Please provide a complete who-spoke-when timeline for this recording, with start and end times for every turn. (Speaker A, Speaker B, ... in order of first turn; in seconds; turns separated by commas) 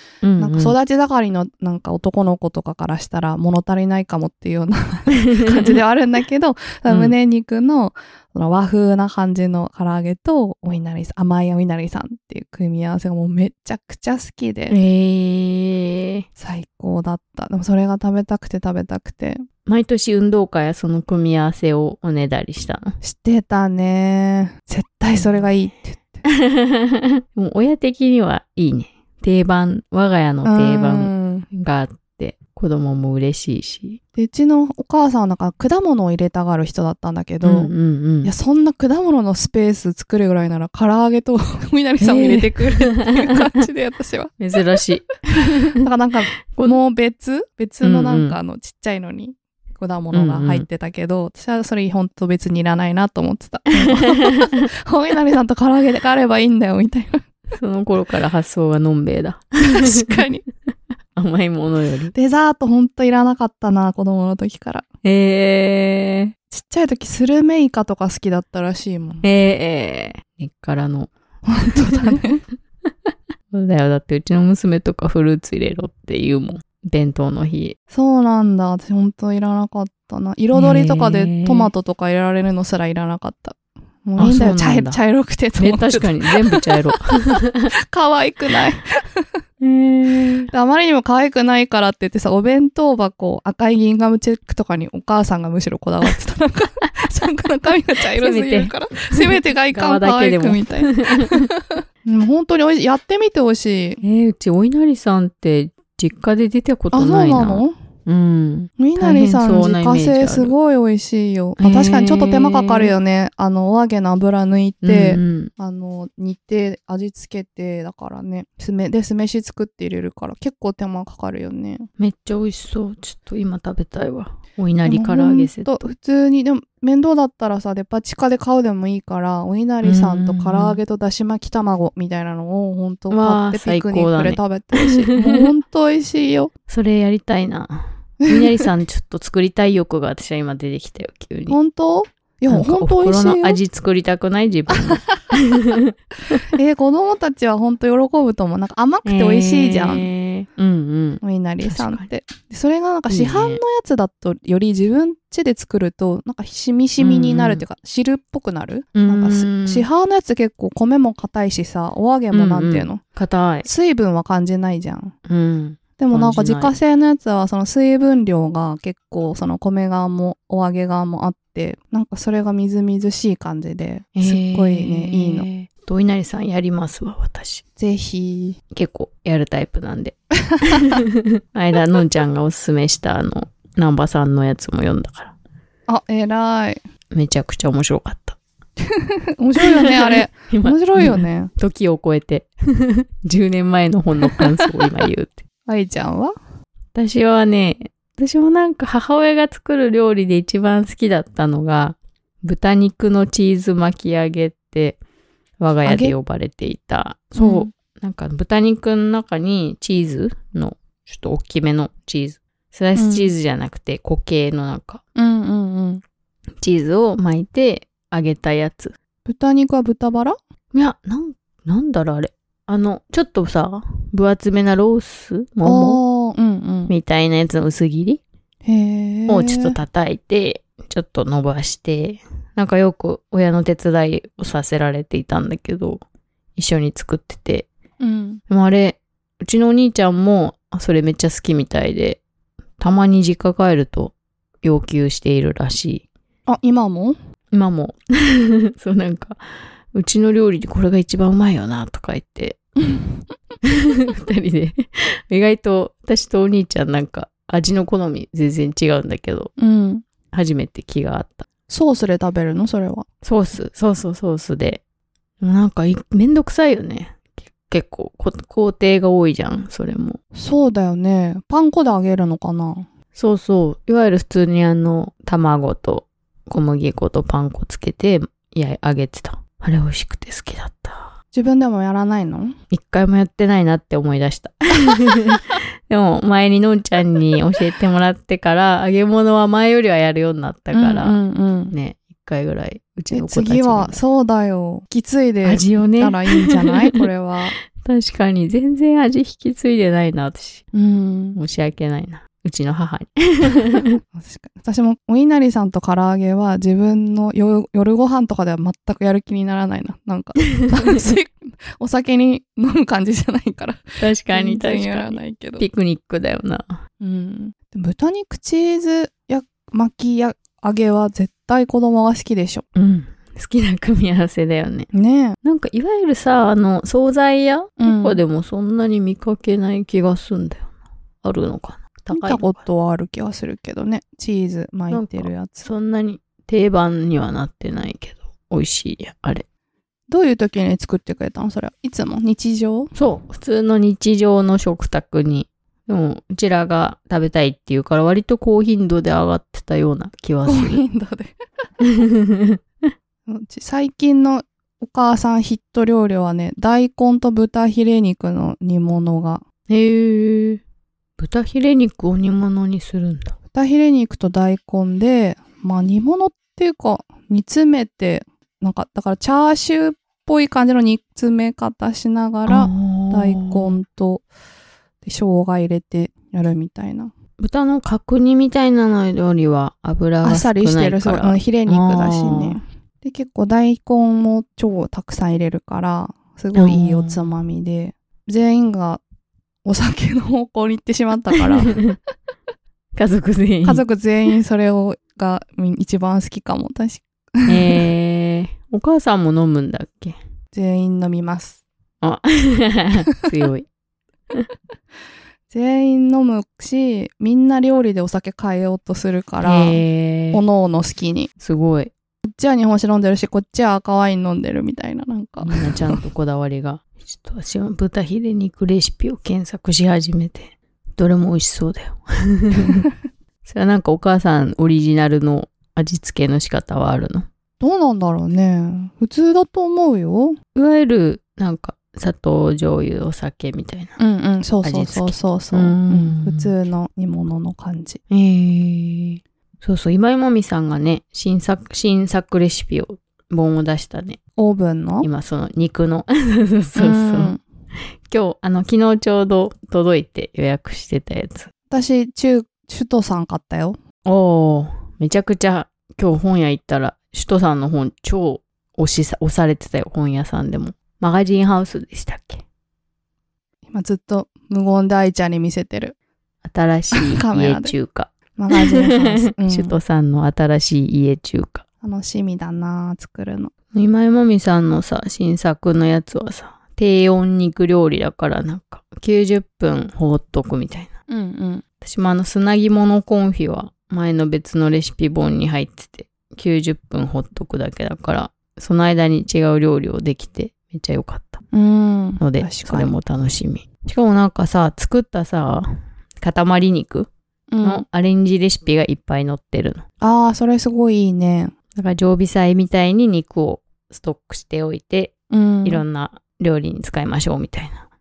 Speaker A: 0.2-0.7, Speaker B: 0.4-14.8, Speaker A: 5.4-5.7, Speaker A: 6.9-7.1, Speaker A: 14.7-16.2, Speaker B: 16.4-19.4, Speaker A: 19.6-23.0, Speaker B: 23.0-26.2, Speaker A: 25.1-25.5, Speaker A: 26.2-34.0, Speaker B: 30.4-31.5, Speaker B: 34.2-37.7, Speaker A: 37.4-38.3, Speaker B: 38.2-44.4, Speaker A: 42.0-43.2, Speaker A: 44.4-45.8, Speaker B: 45.8-57.2, Speaker A: 46.5-46.8, Speaker A: 47.8-48.4, Speaker A: 50.1-50.6, Speaker A: 53.8-54.6, Speaker A: 57.5-60.2, Speaker B: 59.6-60.4, Speaker A: 61.1-62.1, Speaker B: 62.1-64.8, Speaker A: 65.0-66.3, Speaker B: 66.5-69.2, Speaker A: 69.2-71.1, Speaker B: 71.5-72.4, Speaker A: 71.8-72.2, Speaker A: 73.5-77.8, Speaker B: 77.9-89.2, Speaker A: 80.5-81.7, Speaker A: 84.2-85.0, Speaker A: 85.5-87.7, Speaker A: 89.6-90.5, Speaker B: 90.5-104.0, Speaker A: 98.2-101.5, Speaker A: 104.0-110.5, Speaker B: 106.9-107.7, Speaker B: 108.8-121.9, Speaker A: 111.6-112.9, Speaker A: 114.8-115.5, Speaker A: 122.0-125.8, Speaker B: 124.8-136.5, Speaker A: 129.8-130.8, Speaker A: 133.1-135.4, Speaker A: 136.7-141.6, Speaker B: 138.2-138.7, Speaker B: 141.5-143.6, Speaker A: 142.5-146.4, Speaker B: 144.7-145.1, Speaker B: 146.5-150.1, Speaker A: 149.0-152.1, Speaker B: 151.2-163.0, Speaker A: 153.1-153.6, Speaker A: 157.0-157.6, Speaker A: 158.9-159.8, Speaker A: 162.3-163.7, Speaker B: 163.6-165.1, Speaker A: 165.2-166.7, Speaker B: 166.0-175.5, Speaker A: 174.2-177.6, Speaker B: 177.8-178.6, Speaker A: 178.7-185.3, Speaker B: 180.6-180.9, Speaker B: 185.9-186.8, Speaker A: 187.1-188.4, Speaker B: 188.9-191.5, Speaker A: 189.6-195.4, Speaker B: 195.7-196.3, Speaker A: 196.9-205.0, Speaker A: 205.6-215.0, Speaker B: 205.8-206.2, Speaker B: 207.4-207.7, Speaker B: 212.9-213.3, Speaker B: 215.2-216.0, Speaker A: 216.6-218.9, Speaker B: 219.2-220.3, Speaker A: 220.7-226.0, Speaker B: 225.6-226.9, Speaker A: 226.9-228.2, Speaker B: 228.6-229.8, Speaker A: 229.3-236.0, Speaker A: 236.6-237.7, Speaker B: 238.0-238.4, Speaker A: 238.5-242.2, Speaker A: 242.8-246.0, Speaker B: 246.5-247.2, Speaker A: 247.5-249.4, Speaker A: 249.9-252.6, Speaker A: 253.6-259.5, Speaker B: 259.6-260.0, Speaker A: 260.3-261.4, Speaker B: 261.7-263.1, Speaker A: 263.2-264.8, Speaker A: 265.4-270.2, Speaker B: 270.3-272.9, Speaker A: 273.1-281.1, Speaker B: 281.3-282.6, Speaker A: 282.7-291.1, Speaker B: 290.7-291.7, Speaker A: 291.7-294.0, Speaker B: 293.1-297.6, Speaker A: 295.4-297.0, Speaker A: 297.7-300.6, Speaker B: 300.7-301.4, Speaker A: 301.4-304.0, Speaker B: 304.1-315.6, Speaker A: 310.6-311.1, Speaker A: 314.0-316.8, Speaker B: 317.0-322.6, Speaker A: 322.7-324.9, Speaker B: 324.9-325.4, Speaker A: 325.4-332.6, Speaker B: 327.8-328.2, Speaker B: 332.1-335.7, Speaker A: 334.9-339.4, Speaker B: 340.1-342.9, Speaker A: 342.9-350.8, Speaker B: 350.4-351.3, Speaker A: 351.8-352.6, Speaker B: 353.3-359.4, Speaker A: 359.7-360.6, Speaker A: 361.2-363.3, Speaker B: 363.5-374.2, Speaker A: 372.5-373.7, Speaker B: 375.0-377.1, Speaker A: 377.4-382.6, Speaker B: 380.2-389.0, Speaker A: 386.5-387.3, Speaker B: 389.6-391.8, Speaker A: 391.7-392.0, Speaker A: 392.9-393.8, Speaker B: 393.6-397.8, Speaker A: 397.5-400.2, Speaker B: 400.5-401.6, Speaker A: 402.0-403.7, Speaker B: 405.5-411.3, Speaker A: 409.4-410.4, Speaker A: 411.4-411.9, Speaker B: 412.3-416.0, Speaker A: 415.4-422.9, Speaker A: 423.4-427.3, Speaker B: 427.6-430.4, Speaker A: 430.5-434.0, Speaker B: 434.0-438.0, Speaker A: 434.6-436.5, Speaker A: 438.1-444.2, Speaker B: 444.4-445.1, Speaker A: 445.0-447.3, Speaker B: 446.8-447.4, Speaker A: 448.1-451.5, Speaker B: 451.7-453.8, Speaker A: 454.0-462.4, Speaker B: 463.7-465.9, Speaker A: 466.4-471.6, Speaker B: 466.9-467.7, Speaker B: 468.3-469.8, Speaker B: 471.8-473.5, Speaker A: 473.7-480.9, Speaker B: 481.1-481.6, Speaker A: 481.8-491.4, Speaker B: 491.5-492.9, Speaker A: 492.2-497.1, Speaker B: 497.5-497.8, Speaker A: 497.6-499.8, Speaker B: 500.0-501.5, Speaker A: 501.7-507.8, Speaker B: 505.3-505.8